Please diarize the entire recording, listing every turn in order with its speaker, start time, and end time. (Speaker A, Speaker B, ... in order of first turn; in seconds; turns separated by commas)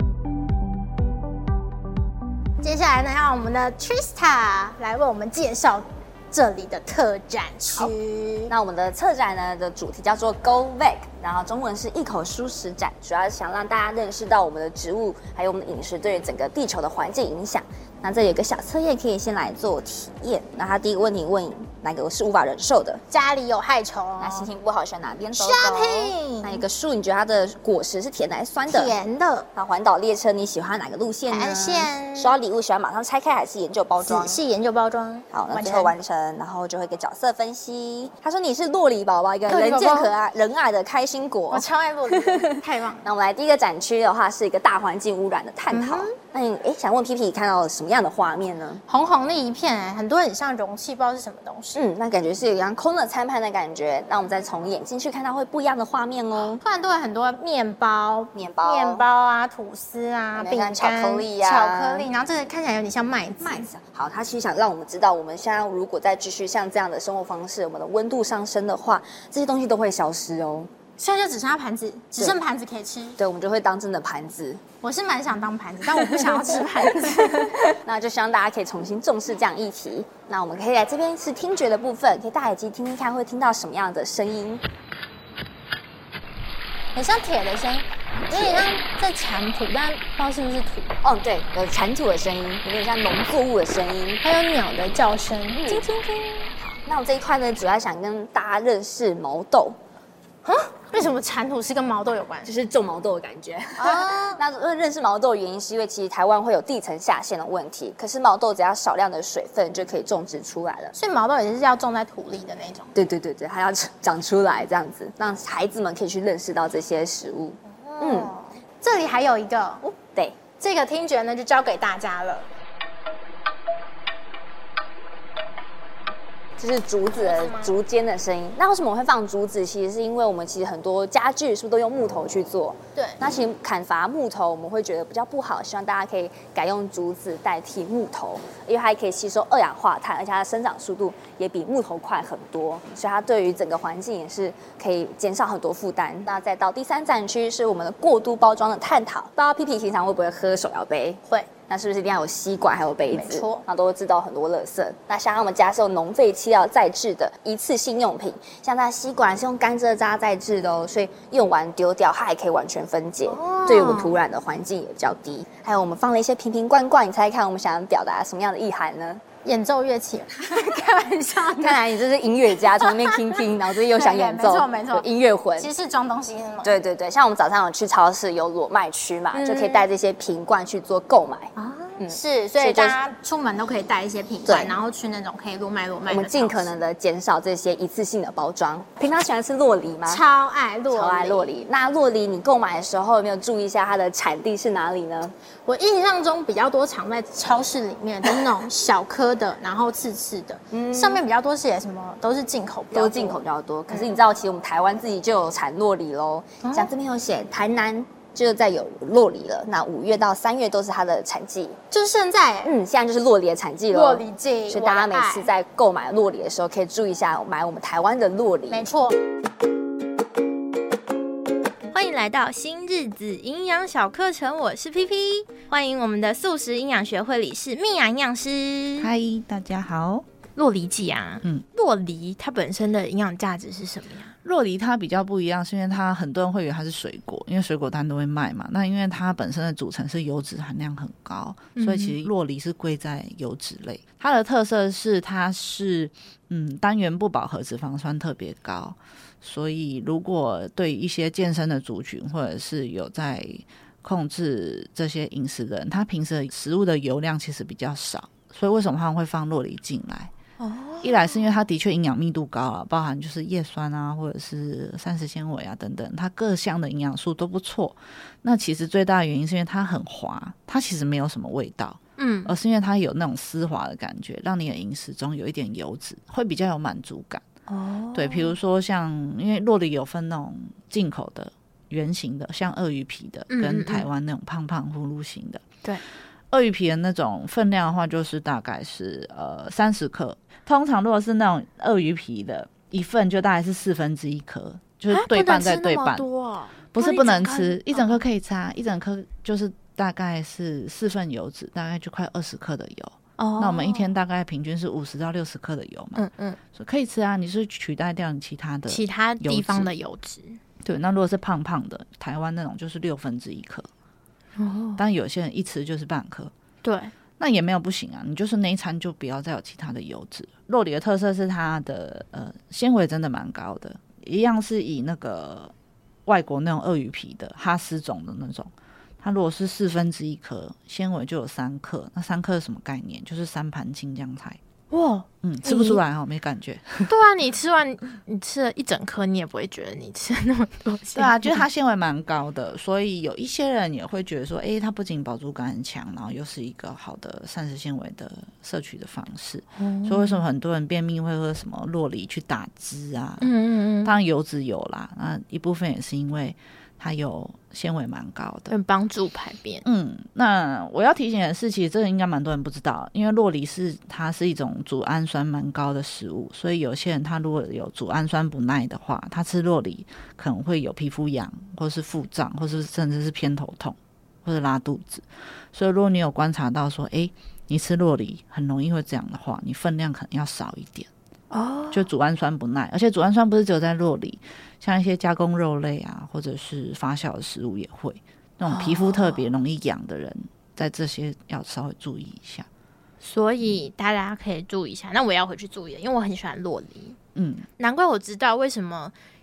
Speaker A: 2.6-8.5, Speaker B: 8.5-23.0, Speaker A: 23.1-24.5, Speaker B: 24.2-28.9, Speaker A: 25.4-26.6, Speaker A: 28.7-29.5, Speaker B: 29.5-34.4, Speaker A: 31.3-32.4, Speaker A: 34.0-36.0, Speaker B: 35.3-48.8, Speaker A: 39.5-40.1, Speaker A: 41.5-43.0, Speaker A: 45.7-46.2, Speaker A: 48.9-51.8, Speaker B: 51.8-56.6, Speaker A: 56.6-63.7, Speaker B: 58.3-59.0, Speaker B: 60.4-62.1, Speaker B: 63.4-70.7, Speaker A: 71.0-73.2, Speaker B: 73.2-74.6, Speaker A: 74.8-77.5, Speaker B: 76.0-84.6, Speaker A: 87.0-90.9, Speaker B: 88.3-88.7, Speaker B: 91.0-94.2, Speaker A: 94.2-96.5, Speaker B: 95.5-95.9, Speaker B: 96.6-99.8, Speaker A: 100.4-102.5, Speaker B: 102.5-111.0, Speaker A: 103.8-104.4, Speaker A: 111.0-112.9, Speaker B: 113.0-118.3, Speaker A: 117.8-119.9, Speaker B: 119.9-120.4, Speaker A: 120.5-122.5, Speaker B: 126.6-169.2, Speaker A: 127.2-127.7, Speaker A: 151.3-151.5, Speaker A: 153.1-153.7, Speaker A: 163.3-164.2, Speaker A: 169.4-171.9, Speaker B: 171.6-175.7, Speaker A: 172.9-173.4, Speaker A: 173.9-175.1, Speaker A: 175.6-176.7, Speaker B: 176.6-183.0, Speaker A: 179.3-179.9, Speaker A: 181.6-186.7, Speaker B: 184.5-184.8, Speaker B: 186.1-190.2, Speaker A: 190.1-191.5, Speaker B: 190.9-195.3, Speaker A: 195.7-204.1, Speaker B: 200.7-201.2, Speaker B: 202.9-211.8, Speaker A: 206.6-206.9, Speaker A: 211.9-212.7, Speaker B: 212.7-218.9, Speaker A: 213.9-215.5, Speaker A: 218.7-219.2, Speaker C: 221.9-229.1, Speaker D: 229.0-230.2, Speaker C: 230.6-234.4, Speaker D: 234.4-260.3, Speaker C: 241.8-242.2, Speaker C: 260.6-261.4, Speaker D: 261.0-277.4, Speaker C: 272.2-272.5, Speaker C: 277.7-278.5, Speaker D: 278.1-285.6, Speaker C: 283.5-284.1, Speaker D: 286.5-296.3, Speaker C: 295.1-298.2, Speaker D: 296.9-309.9, Speaker C: 303.4-304.1, Speaker C: 306.2-306.6, Speaker C: 308.9-310.6, Speaker D: 310.8-313.9, Speaker C: 314.6-315.0, Speaker D: 315.0-316.5, Speaker C: 316.8-317.1, Speaker D: 317.4-325.7, Speaker D: 326.3-334.6, Speaker C: 334.9-336.0, Speaker D: 335.4-337.1, Speaker C: 337.1-341.6, Speaker D: 341.1-353.5, Speaker C: 349.8-350.4, Speaker C: 353.4-354.1, Speaker D: 354.0-358.7, Speaker C: 358.7-359.9, Speaker D: 359.8-381.1, Speaker C: 381.5-382.1, Speaker D: 381.9-392.7, Speaker C: 388.7-389.4, Speaker C: 393.2-397.2, Speaker D: 397.4-397.7, Speaker C: 397.8-399.1